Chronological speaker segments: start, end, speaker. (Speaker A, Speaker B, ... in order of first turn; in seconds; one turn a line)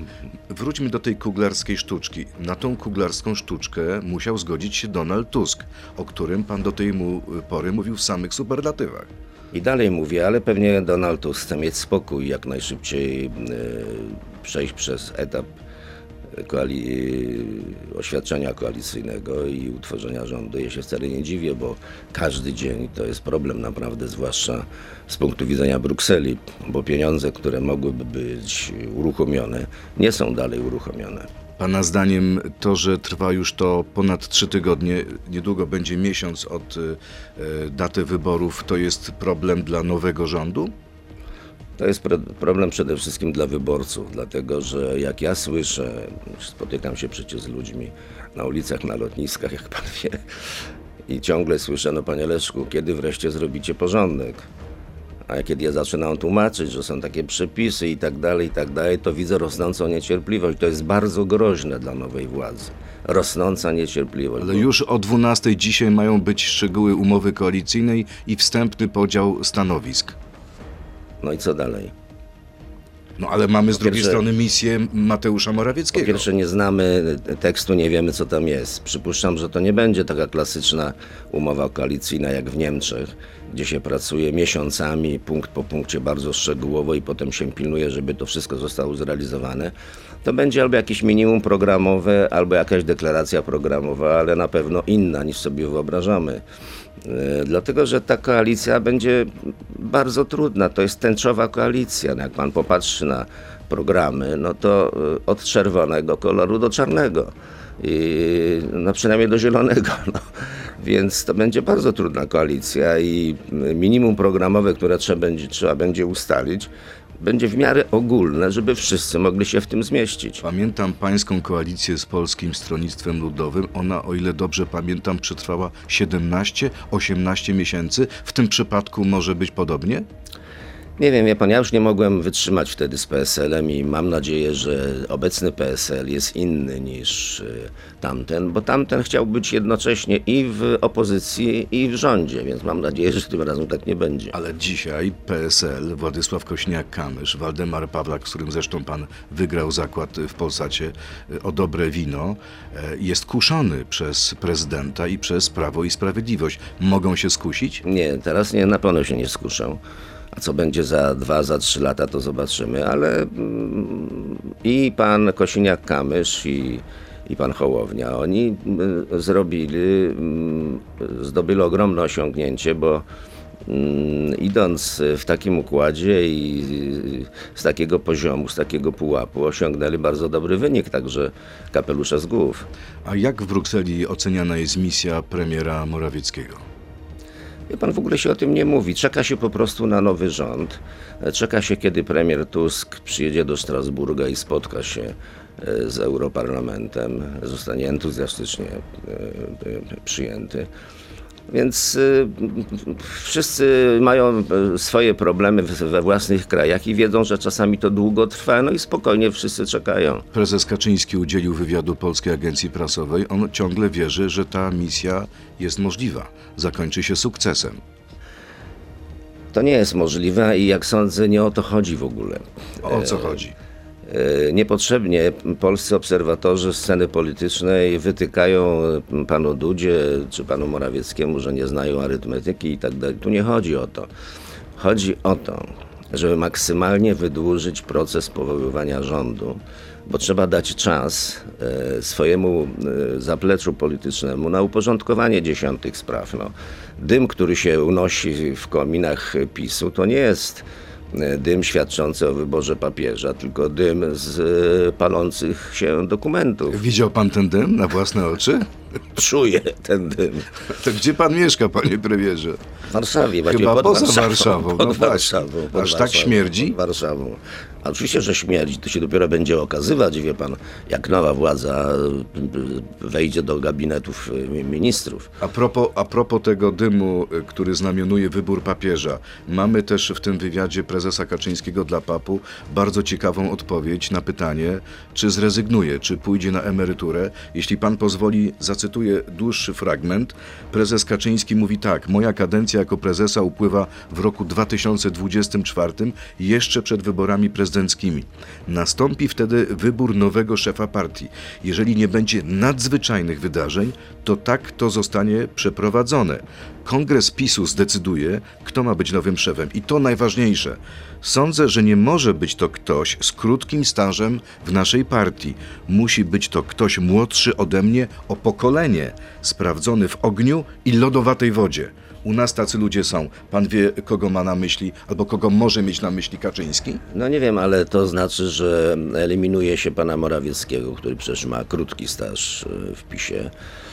Speaker A: 0.5-9.1
Speaker B: 9.5-15.5
Speaker B: 16.3-31.3
Speaker A: 31.6-40.7
Speaker B: 41.8-50.2
Speaker B: 51.1-54.5
Speaker B: 55.3-64.7
Speaker A: 64.4-70.2
Speaker B: 71.2-71.9
Speaker A: 73.2-76.3
Speaker B: 73.8-74.2
Speaker B: 75.9-96.4
Speaker B: 97.0-120.4
Speaker A: 120.4-130.1
Speaker B: 131.0-144.3
Speaker A: 144.3-157.8
Speaker B: 157.8-159.8
Speaker B: 160.3-173.1
Speaker B: 173.7-182.7
Speaker A: 183.0-186.6
Speaker B: 187.7-200.7
Speaker B: 201.5-210.2
Speaker A: 210.3-217.8
Speaker B: 219.5-223.4
Speaker A: 222.8-223.5
Speaker B: 224.1-234.1
Speaker B: 234.8-256.8
Speaker A: 256.7-258.7
Speaker B: 259.1-260.5
Speaker A: 260.7-262.6
Speaker B: 262.9-275.3
Speaker A: 263.4-266.8
Speaker A: 275.4-327.0
Speaker B: 327.1-333.5